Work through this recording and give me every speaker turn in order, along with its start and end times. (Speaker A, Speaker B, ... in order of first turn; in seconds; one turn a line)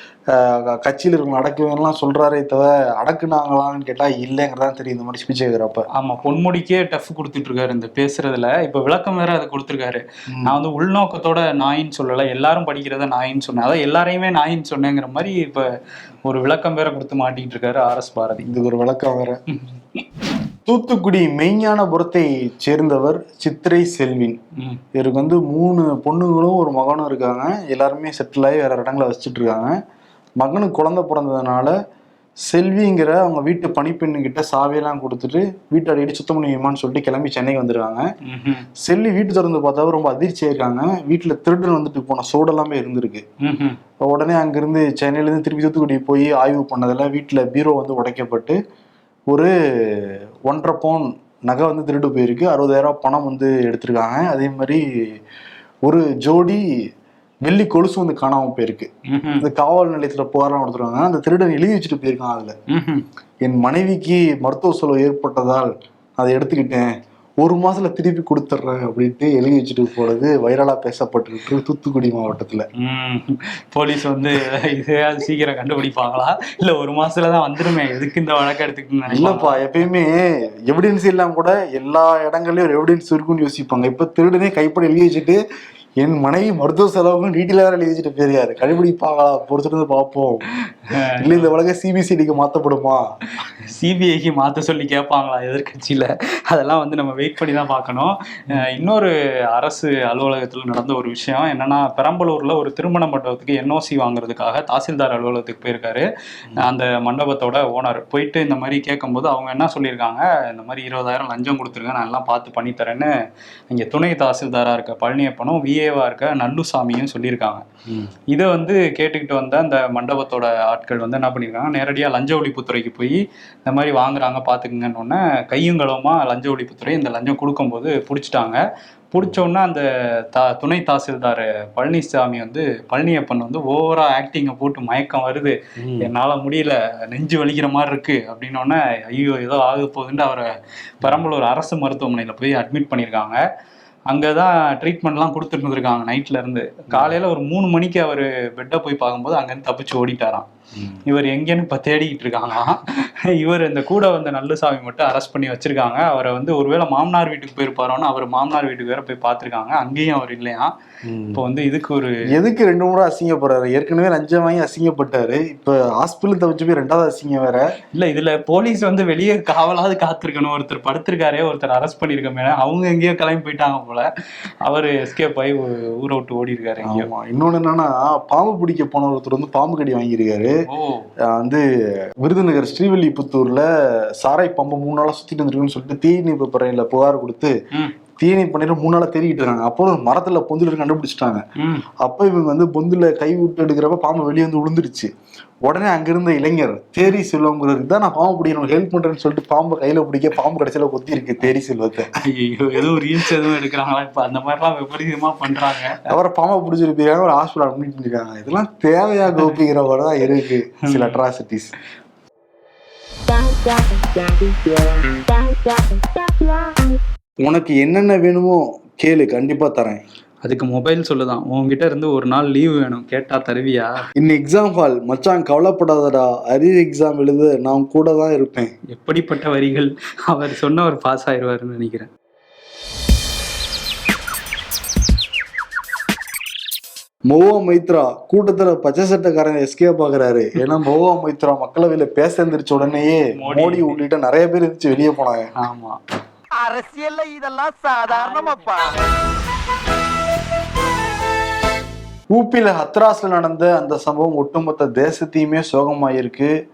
Speaker A: 0.3-5.9
Speaker B: 5.9-15.7
Speaker A: 10.3-10.6
Speaker B: 16.2-18.5
Speaker A: 18.4-19.4
Speaker B: 19.5-20.0
Speaker A: 20.6-24.4
Speaker A: 24.9-29.8
Speaker A: 30.4-31.7
Speaker A: 32.5-38.1
Speaker B: 38.2-38.7
Speaker A: 38.8-43.2
Speaker B: 43.4-43.8
Speaker A: 44.0-48.6
Speaker A: 49.3-54.8
Speaker A: 55.8-56.6
Speaker A: 57.4-58.9
Speaker B: 59.1-59.4
Speaker A: 59.4-62.5
Speaker B: 62.7-63.0
Speaker A: 63.4-66.9
Speaker A: 67.4-72.7
Speaker B: 72.8-79.6
Speaker A: 79.1-85.4
Speaker A: 86.0-93.0
Speaker B: 90.9-91.5
Speaker B: 93.6-106.0
Speaker B: 106.6-113.1
Speaker B: 113.7-117.7
Speaker B: 118.3-128.6
Speaker B: 129.1-143.4
Speaker A: 135.8-136.1
Speaker B: 144.1-150.5
Speaker A: 150.7-151.0
Speaker B: 151.0-160.7
Speaker A: 161.1-161.4
Speaker B: 161.3-162.2
Speaker A: 162.3-167.7
Speaker B: 167.9-174.1
Speaker B: 174.6-177.1
Speaker A: 176.8-180.6
Speaker B: 180.7-181.1
Speaker A: 181.2-181.6
Speaker A: 182.2-183.7
Speaker A: 184.2-187.5
Speaker A: 188.2-191.4
Speaker B: 191.6-191.8
Speaker A: 192.0-195.1
Speaker A: 195.6-202.1
Speaker B: 202.2-206.1
Speaker A: 206.1-211.7
Speaker B: 210.9-211.2
Speaker C: 213.3-217.0
Speaker A: 217.4-220.0
Speaker B: 220.4-224.0
Speaker A: 224.2-228.7
Speaker B: 228.9-232.1
Speaker A: 237.3-245.5
Speaker B: 243.4-243.9
Speaker B: 245.6-246.0
Speaker C: 246.5-249.1
Speaker A: 252.3-256.5